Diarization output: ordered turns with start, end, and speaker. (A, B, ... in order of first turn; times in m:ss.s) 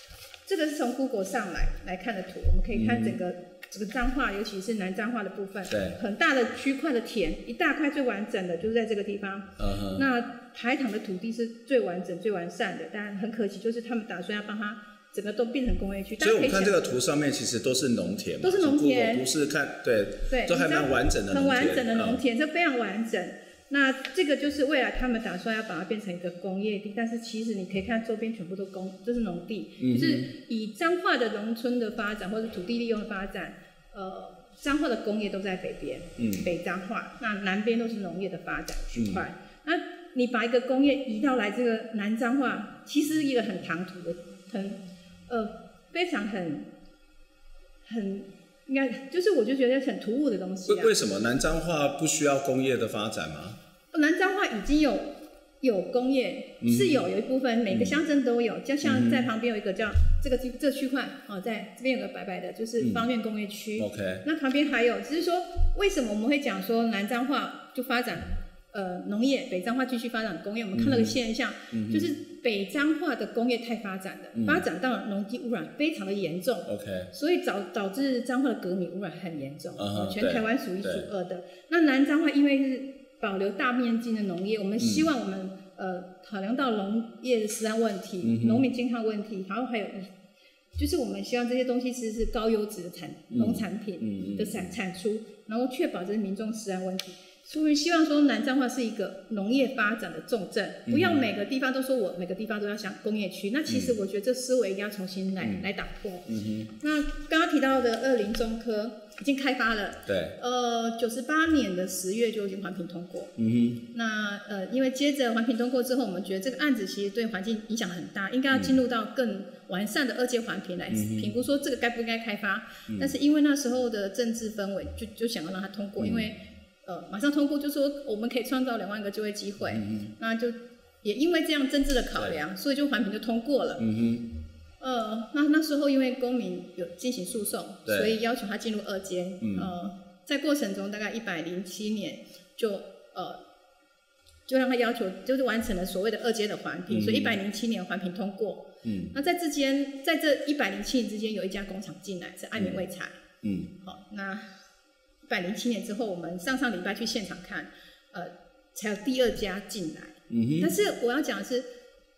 0:00.5-0:16.8 A
0:02.7-0:03.2 B
0:05.7-0:06.0 B
0:09.6-0:10.1 B
0:16.2-0:22.2 B
0:18.4-0:19.2 A
0:20.3-0:46.7 A
0:29.8-0:30.3 B
0:36.2-0:36.5 B
0:38.9-0:39.2 B
0:47.8-0:50.9 A
0:50.7-0:53.6 B
0:53.9-1:30.1 A
0:56.6-0:57.0 B
0:57.7-0:58.0 B
0:58.8-0:59.3 B
1:02.8-1:03.1 B
1:03.8-1:04.2 B
1:10.7-1:11.2 B
1:11.7-1:12.1 B
1:14.4-1:14.7 B
1:16.7-1:17.1 B
1:19.8-1:21.1 B
1:24.8-1:25.1 B
1:28.2-1:28.7 B
1:30.8-1:46.3 A
1:33.3-1:34.7 B
1:40.9-1:41.2 B
1:43.7-1:44.0 B
1:45.4-1:45.6 B
1:46.3-1:46.7 B
1:46.8-1:53.3 A
1:50.1-1:50.4 B
1:53.4-1:53.8 B
1:53.9-2:13.8 A
1:58.5-1:58.8 B
2:00.9-2:01.3 B
2:02.9-2:03.1 B
2:06.0-2:06.3 B
2:09.7-2:10.1 B
2:13.8-2:14.3 B
2:14.8-2:23.4 A
2:17.9-2:18.2 B
2:19.4-2:19.7 B
2:24.5-2:33.2 A
2:26.9-2:27.4 B
2:28.8-2:29.1 B
2:32.6-2:32.8 B
2:33.4-2:33.7 B
2:33.8-2:34.5 A
2:35.2-2:41.7 A
2:40.3-2:40.7 B